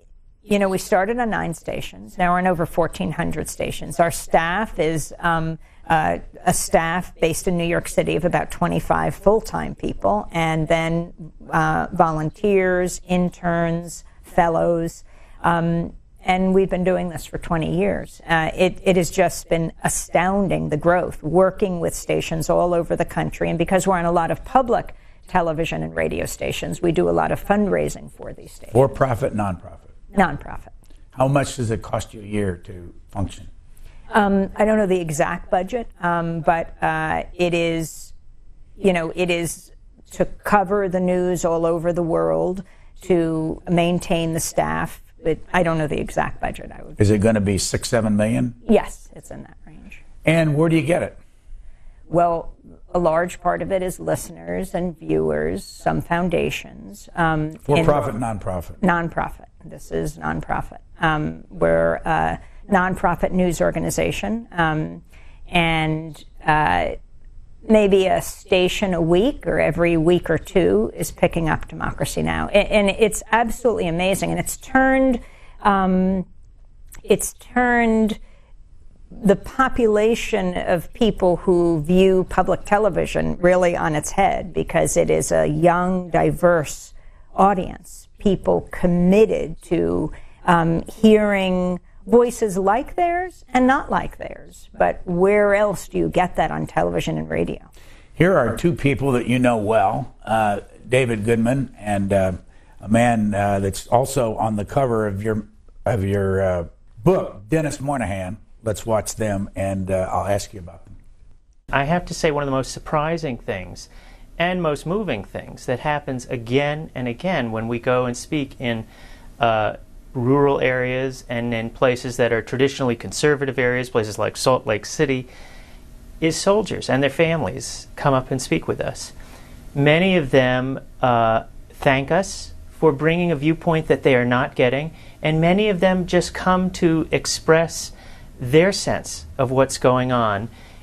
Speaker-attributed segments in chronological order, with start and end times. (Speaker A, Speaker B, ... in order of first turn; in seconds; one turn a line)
Speaker A: 0.5-28.8
Speaker B: 28.7-29.9
Speaker A: 30.1-30.7
Speaker B: 31.1-33.5
Speaker A: 34.1-38.1
Speaker A: 38.8-47.0
Speaker B: 47.0-48.6
Speaker A: 48.6-50.0
Speaker B: 50.2-51.2
Speaker A: 52.1-58.0
Speaker B: 57.7-58.8
Speaker A: 58.8-67.0
Speaker A: 67.7-76.2
Speaker A: 77.1-78.2
Speaker A: 79.2-97.7
Speaker B: 98.2-111.0
Speaker C: 111.7-118.9
Speaker C: 119.4-125.3
Speaker C: 126.2-129.1
Speaker C: 129.7-140.5